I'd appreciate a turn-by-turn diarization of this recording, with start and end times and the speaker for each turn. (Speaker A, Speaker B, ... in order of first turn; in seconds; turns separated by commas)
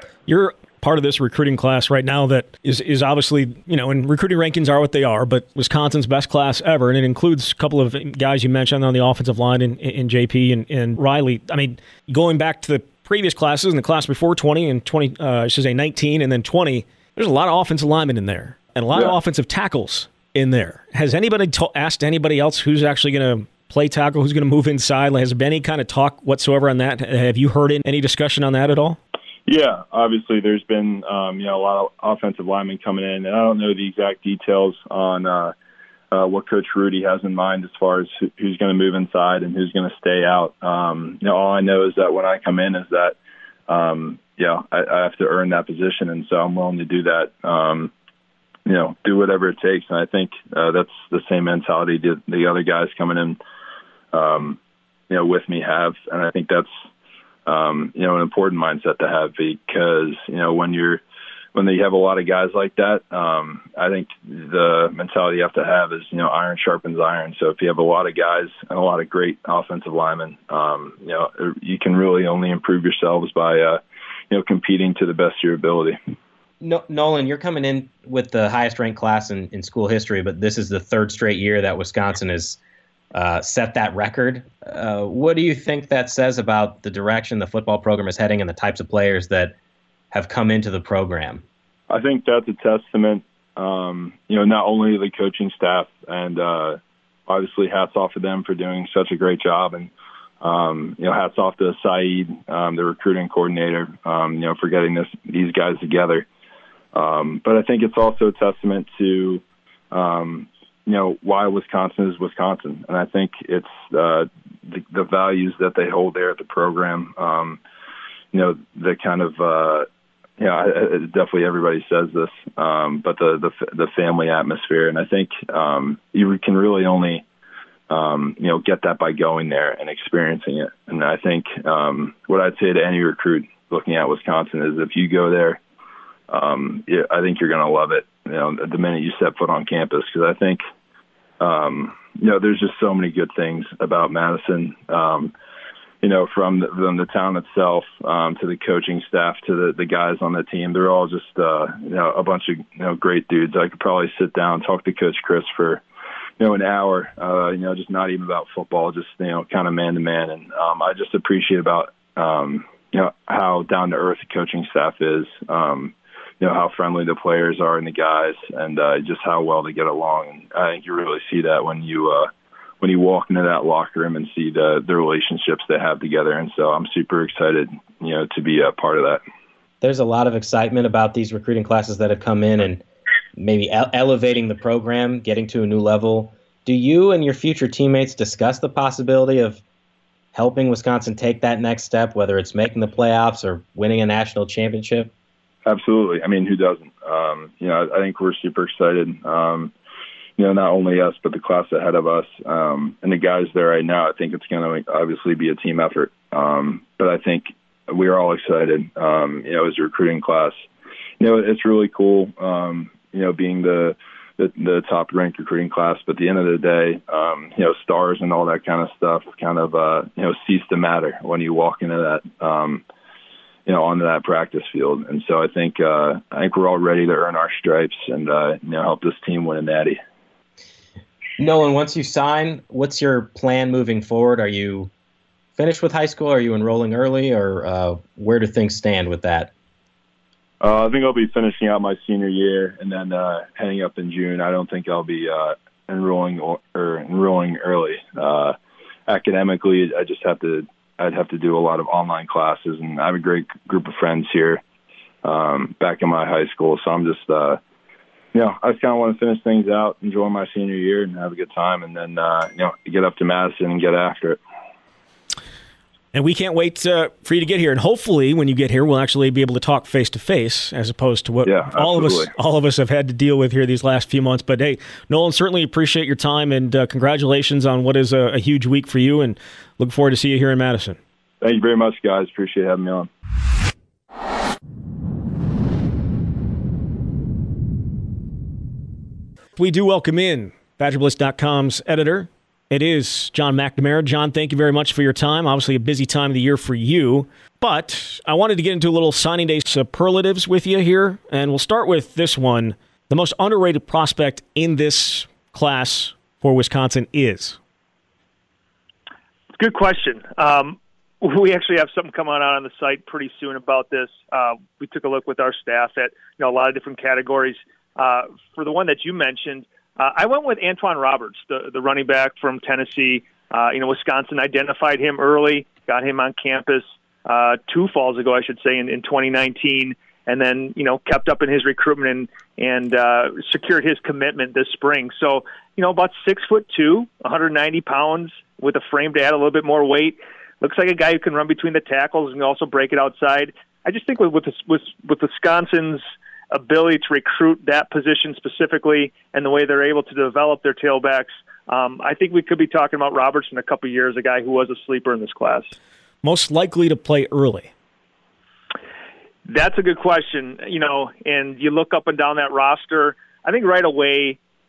Speaker A: 0.3-29.0, Speaker B: 29.4-35.5, Speaker B: 36.1-43.2, Speaker B: 43.7-47.9, Speaker B: 48.6-53.4, Speaker B: 54.1-54.6, Speaker B: 55.1-56.7, Speaker B: 57.5-61.0, Speaker B: 61.5-76.0, Speaker C: 76.6-82.6, Speaker C: 83.1-89.5, Speaker C: 90.1-91.4, Speaker B: 91.9-106.3, Speaker B: 106.9-117.6, Speaker B: 118.3-119.9, Speaker B: 120.4-127.2, Speaker B: 127.9-135.6, Speaker B: 136.3-140.6, Speaker B: 141.4-145.3, Speaker B: 146.0-155.8, Speaker B: 156.4-179.2, Speaker C: 179.8-182.8, Speaker C: 183.3-189.6, Speaker C: 190.3-195.1, Speaker B: 195.6-199.7, Speaker B: 200.4-210.6, Speaker B: 211.2-222.8, Speaker B: 223.7-230.0, Speaker C: 231.4-234.9, Speaker C: 235.6-239.5, Speaker B: 240.6-254.6, Speaker B: 255.2-257.6, Speaker B: 258.3-264.4, Speaker A: 266.1-281.0, Speaker B: 271.4-272.3, Speaker B: 281.4-283.1, Speaker A: 289.6-307.6, Speaker D: 309.6-355.7, Speaker A: 356.2-357.7, Speaker D: 359.5-364.4